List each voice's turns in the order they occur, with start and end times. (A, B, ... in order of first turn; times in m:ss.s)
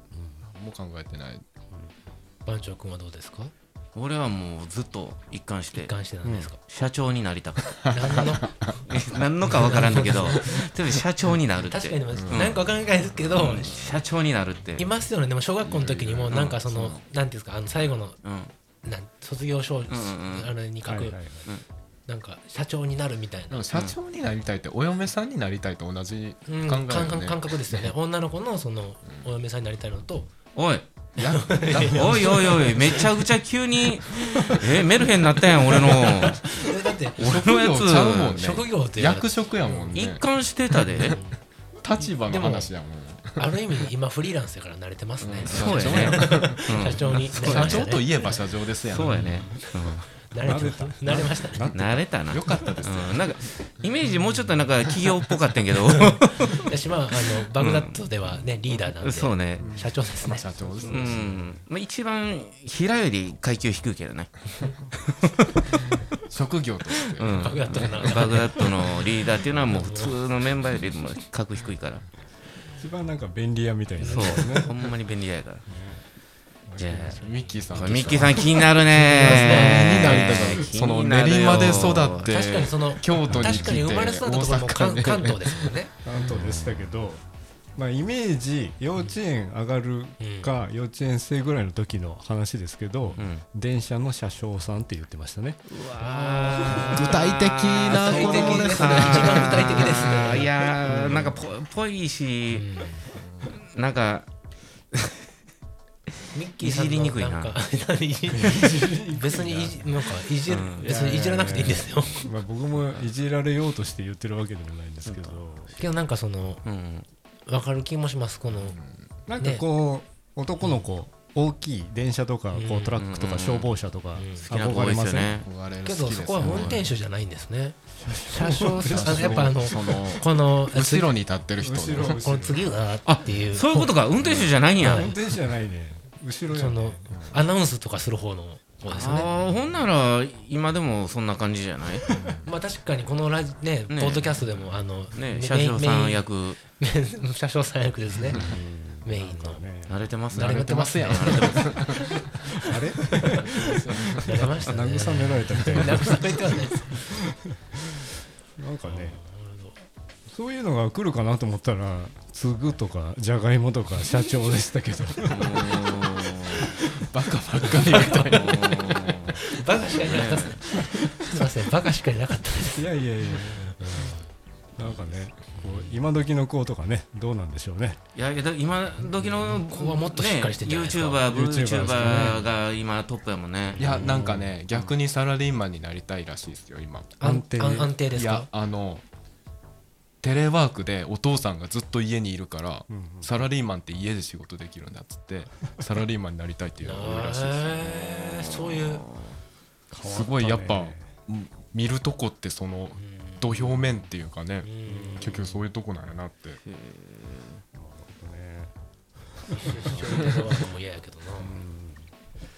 0:00.4-0:01.4 A
0:02.4-0:03.5 B
0:04.0-0:05.9 C
0:05.7-0:06.6 B
0:06.2-0:06.5 D
0:06.7-0:12.6 C
0:07.8-0:08.7 A
0:07.9-0:08.6 B
0:09.4-0:10.7 B
0:11.7-0:14.0 B
0:12.1-0:12.6 A
0:13.2-0:14.8 C
0:14.8-0:18.2 B
0:15.6-0:17.0 A
0:16.3-0:16.6 C
0:18.2-0:18.5 C
0:18.8-0:21.2 B
0:19.9-0:20.5 C
0:20.9-0:21.5 D
0:22.1-0:23.7 B
0:23.5-0:27.9 A
0:26.5-0:30.3 B
0:30.6-0:30.9 C
0:31.2-0:33.2 A
0:31.3-0:32.3 B
0:31.8-0:36.4 C
0:34.2-0:35.0 A
0:35.6-0:36.3 A
0:35.8-0:37.3 B
0:37.2-0:38.4 C
0:37.2-0:40.3 A
0:38.4-0:40.0 B
0:39.9-0:41.2 C
0:40.8-0:41.2 A
0:40.9-0:41.4 B
0:41.8-0:43.9 A
0:42.0-0:42.7 B
0:43.4-0:48.4 B
0:45.2-0:49.4 A
0:45.5-0:48.0 C
0:48.9-0:50.1 C
0:49.2-0:49.4 D
0:49.3-0:49.6 B
0:50.2-0:51.8 B
0:50.4-0:52.7 D
0:51.7-0:56.7 C
0:52.3-0:53.4 A
0:55.9-1:00.9 B
0:57.6-0:58.0 C
0:58.9-0:59.7 C
0:59.6-1:01.5 A
1:00.6-1:01.4 D
1:00.9-1:05.9 C
1:06.0-1:08.1 A
1:07.2-1:12.0 C
1:07.4-1:10.2 B
1:12.8-1:14.8 D
1:14.0-1:14.7 B
1:14.0-1:15.6 C
1:15.7-1:16.0 D
1:16.7-1:20.7 D
1:16.8-1:17.2 C
1:17.2-1:18.6 A
1:17.7-1:22.3 C
1:19.1-1:25.8 A
1:19.4-1:20.0 B
1:22.2-1:25.9 B
1:23.3-1:24.0 D
1:26.0-1:27.2 D
1:26.2-1:26.9 C
1:27.8-1:35.6 D
1:30.2-1:30.5 B
1:33.2-1:33.4 C
1:35.7-1:42.8 C
1:36.0-1:37.2 B
1:36.7-1:39.6 A
1:37.9-1:40.5 B
1:37.9-1:40.3 D
1:40.9-1:41.4 A
1:42.5-1:43.1 B
1:43.1-1:43.5 A
1:43.4-1:44.3 C
1:46.3-1:52.4 B
1:46.6-1:47.5 C
1:48.3-1:55.8 D
1:50.5-1:50.9 C
1:55.0-1:55.4 C
1:55.8-1:56.6 B
1:56.6-1:57.1 C
1:57.5-1:58.8 B
1:58.5-1:59.1 A
1:59.3-2:05.4 D
1:59.4-1:59.6 B
2:02.5-2:03.0 B
2:03.0-2:03.7 C
2:04.2-2:04.5 B
2:04.4-2:05.5 C
2:05.4-2:06.9 A
2:05.8-2:11.2 B
2:06.4-2:06.8 C
2:08.0-2:09.8 D
2:08.9-2:12.2 A
2:11.6-2:12.6 D
2:12.0-2:14.0 B
2:13.0-2:15.1 C
2:14.8-2:15.1 B
2:14.8-2:17.3 D
2:16.5-2:19.3 B
2:18.9-2:22.1 C
2:22.1-2:22.5 A
2:22.4-2:26.3 B
2:23.9-2:24.4 C
2:25.1-2:26.6 C
2:26.8-2:28.4 B
2:28.3-2:30.0 D
2:29.0-2:29.6 B
2:29.9-2:31.7 C
2:30.3-2:32.2 A
2:30.4-2:32.2 B
2:32.6-2:38.0 D
2:33.6-2:34.3 A
2:34.2-2:37.2 B
2:38.6-2:39.2 D
2:38.9-2:39.8 B
2:40.3-2:46.8 D
2:45.3-2:46.7 C
2:47.0-2:49.2 A
2:48.1-2:48.4 B
2:48.1-2:49.4 C
2:49.4-2:54.3 B
2:50.0-2:50.6 C
2:52.6-2:54.2 D
2:54.8-2:58.0 D
2:55.6-2:56.0 B
2:58.2-3:03.9 C
2:59.0-3:01.3 B
3:01.3-3:02.5 D
3:03.7-3:04.2 B
3:03.8-3:07.2 A
3:03.9-3:04.5 D
3:07.2-3:08.5 B
3:07.2-3:08.0 D
3:08.1-3:09.0 A
3:10.2-3:17.9 A
3:12.9-3:13.3 D
3:16.8-3:19.0 B
3:17.9-3:19.4 C
3:19.9-3:21.1 D
3:20.0-3:26.6 A
3:23.0-3:23.5 B
3:24.6-3:25.4 B
3:24.8-3:25.6 D
3:26.6-3:27.6 C
3:27.7-3:28.7 D
3:29.3-3:30.6 D
3:29.6-3:31.6 B
3:31.4-3:32.1 D